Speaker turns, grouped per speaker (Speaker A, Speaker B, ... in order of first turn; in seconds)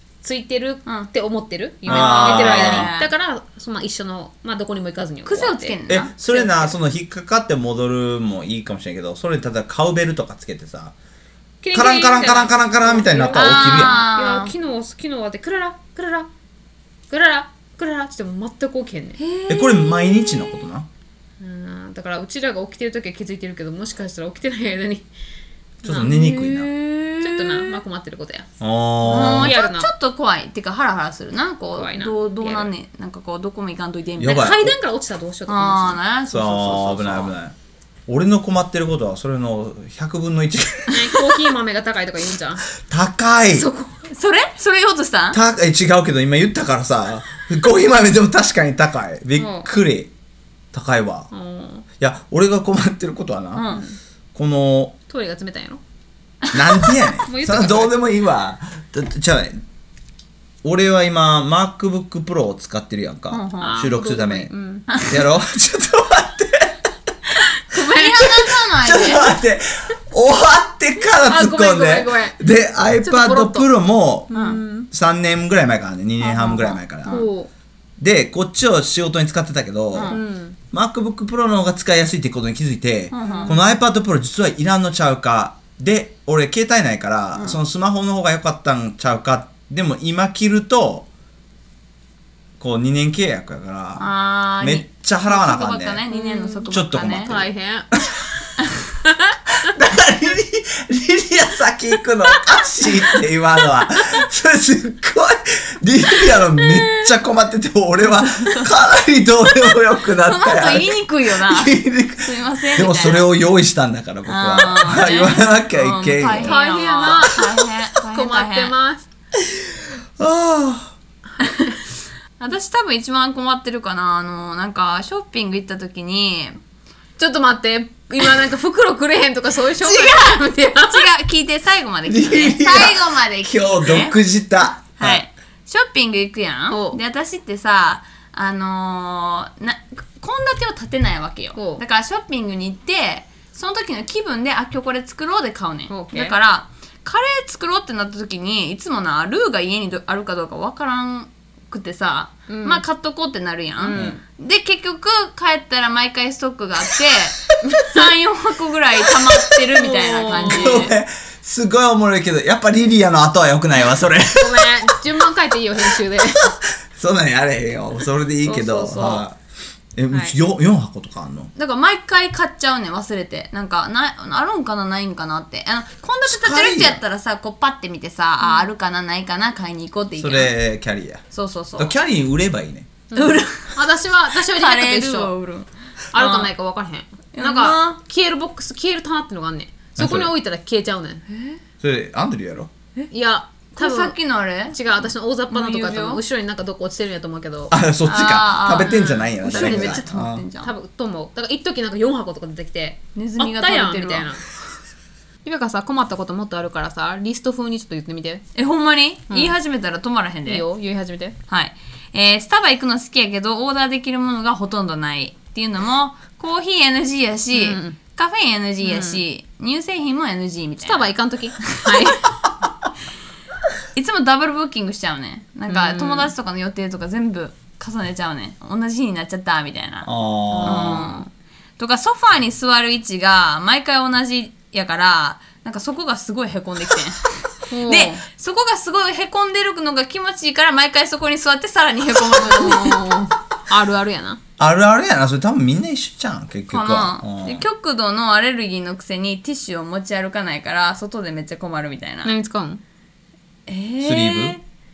Speaker A: 0.2-5.8, 6.3-6.7, 11.6-16.3, 17.1-19.2, 21.4-25.1, 25.8-26.1, 27.2-28.5, 29.1-29.9, 31.7-32.7, 34.2-36.0, 40.9-42.7, 49.4-49.7, 51.3-51.9, 53.6-54.0, 55.1-55.8, 57.3-57.9, 63.6-64.9, 67.7-68.5, 71.2-72.4, 73.0-73.7, 74.3-74.9, 77.1-77.5, 80.1-80.6, 83.2-83.6, 96.1-96.7, 97.2-98.0, 116.4-119.1, 127.2-131.1, 136.7-137.0, 141.6-141.8, 145.9-146.4, 152.5-152.8, 153.8-154.2, 157.7-158.1, 159.7-160.9, 164.3-166.6, 168.4-169.3, 178.4-178.7, 183.1-185.3, 186.1-191.2, 193.1-194.2, 194.7-197.8, 198.8-200.1, 200.6-204.4, 205.4-208.4, 210.4-211.4, 217.5-218.0, 218.8-219.2, 220.8-222.3, 225.7-226.3, 230.5-231.2, 237.7-238.2, 242.3-244.4, 252.2-252.8
Speaker B: 1.9-2.9, 5.9-10.9, 11.7-14.1, 19.5-20.9, 25.8-26.7, 28.6-29.6, 34.2-34.7, 36.3-37.5, 38.1-41.4, 42.8-43.7, 45.3-50.1, 50.7-51.3, 52.0-53.7, 54.3-55.0, 56.5-59.6, 60.6-66.9, 68.8-74.3, 74.9-77.2, 78.0-80.2, 80.7-91.1, 92.6-94.1, 94.6-96.0, 96.7-98.2, 99.6-117.4, 119.3-120.9, 132.1-135.2, 153.9-154.2, 160.4-164.9, 166.4-169.4, 169.9-171.5, 176.3-177.0, 180.2-181.2, 181.8-183.0, 189.9-190.3, 191.8-192.7, 197.7-200.4, 230.1-231.1, 244.6-247.7, 254.0-254.6
Speaker C: 1.9-3.1, 5.3-6.2, 13.3-14.5, 19.2-20.7, 25.9-27.8, 29.0-34.6, 35.5-37.3, 43.5-45.4, 53.5-53.8, 56.5-56.9, 63.3-63.8, 64.9-65.1, 67.7-69.3, 74.3-74.6, 76.2-77.3, 79.9-80.2, 83.1-83.6, 94.0-97.4, 108.2-108.7, 110.1-113.3, 114.2-118.7, 121.4-121.7, 122.4-126.6, 129.8-134.2, 134.9-160.9, 171.6-180.5, 181.3-181.9, 183.1-186.5, 187.3-188.0, 191.3-191.6, 193.8-196.2, 198.1-200.7, 203.1-204.3, 208.6-210.6, 211.5-222.2, 223.9-230.1, 230.6-231.3, 231.8-243.2, 246.7-252.3, 253.7-254.6